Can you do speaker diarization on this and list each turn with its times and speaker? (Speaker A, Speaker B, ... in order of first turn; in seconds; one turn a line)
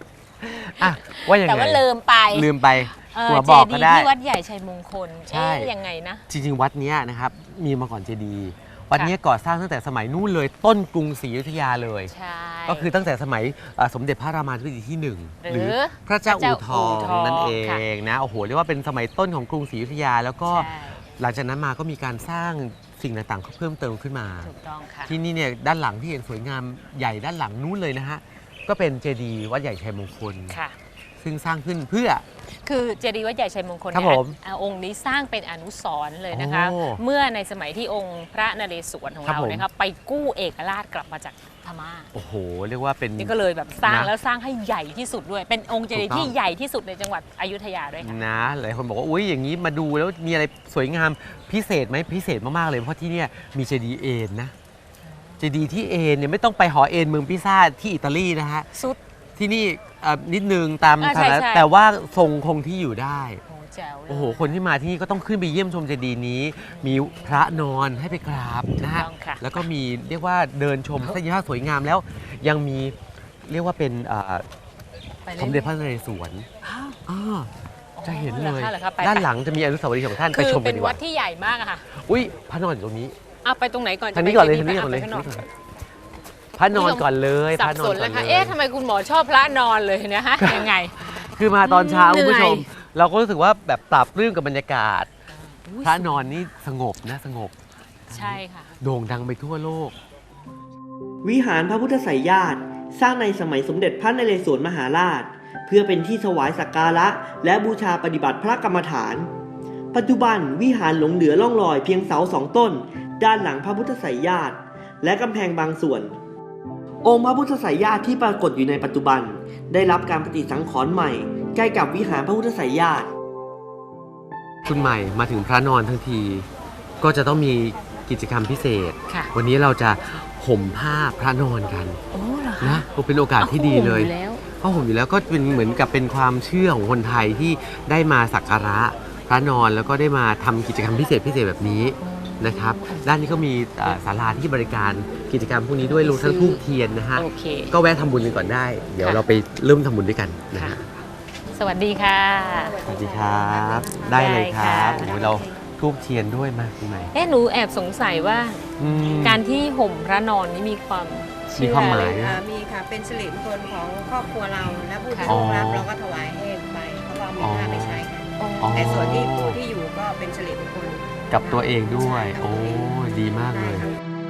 Speaker A: 0.4-4.1
Speaker B: 0.8-6.2
Speaker A: 5.3-5.7
Speaker A: 6.3-12.1
Speaker B: 12.1-12.9
Speaker A: 12.7-24.5
Speaker B: 15.4-17.8
Speaker B: 20.5-21.0
Speaker B: 24.4-25.1
Speaker A: 25.1-30.6
Speaker B: 30.5-30.7
Speaker A: 31.2-32.2
Speaker B: 32.6-42.1
Speaker A: 33.9-34.4
Speaker A: 36.3-37.0
Speaker A: 39.2-39.6
Speaker A: 42.1-44.1
Speaker B: 43.2-48.2
Speaker A: 45.9-46.3
Speaker A: 48.0-54.5
Speaker B: 55.0-55.4
Speaker A: 55.4-58.7
Speaker B: 58.7-59.0
Speaker A: 59.4-63.4
Speaker B: 61.0-61.7
Speaker B: 63.5-64.5
Speaker A: 64.1-74.5
Speaker B: 66.7-67.4
Speaker B: 68.8-69.6
Speaker B: 75.2-75.7
Speaker A: 75.3-76.5
Speaker B: 76.6-77.0
Speaker A: 77.0-77.5
Speaker B: 77.9-79.3
Speaker A: 78.0-81.0
Speaker B: 80.2-81.8
Speaker A: 81.9-83.1
Speaker B: 83.4-85.4
Speaker A: 84.1-85.5
Speaker A: 86.5-88.6
Speaker B: 86.7-92.7
Speaker A: 90.4-95.1
Speaker B: 95.4-96.4
Speaker A: 95.8-97.5
Speaker B: 98.1-98.7
Speaker A: 98.1-99.9
Speaker C: 101.2-109.3
Speaker C: 109.9-116.1
Speaker C: 117.0-123.1
Speaker A: 124.7-126.5
Speaker A: 127.0-132.0
Speaker B: 132.1-132.8
Speaker A: 132.6-150.8
Speaker B: 133.4-134.4
Speaker B: 142.0-143.2
Speaker B: 145.8-146.6
Speaker B: 147.1-147.7
Speaker B: 149.0-149.2
Speaker B: 150.5-150.8
Speaker B: 151.5-152.8
Speaker D: 152.5-154.2
Speaker A: 152.8-157.1
Speaker B: 154.1-155.1
Speaker D: 154.8-155.6
Speaker B: 157.1-158.6
Speaker A: 158.8-159.4
Speaker B: 159.2-162.3
Speaker A: 161.6-162.4
Speaker D: 162.0-172.9
Speaker B: 165.1-165.4
Speaker A: 165.2-165.9
Speaker A: 167.4-168.0
Speaker B: 168.4-168.9
Speaker A: 168.6-169.6
Speaker A: 171.3-173.8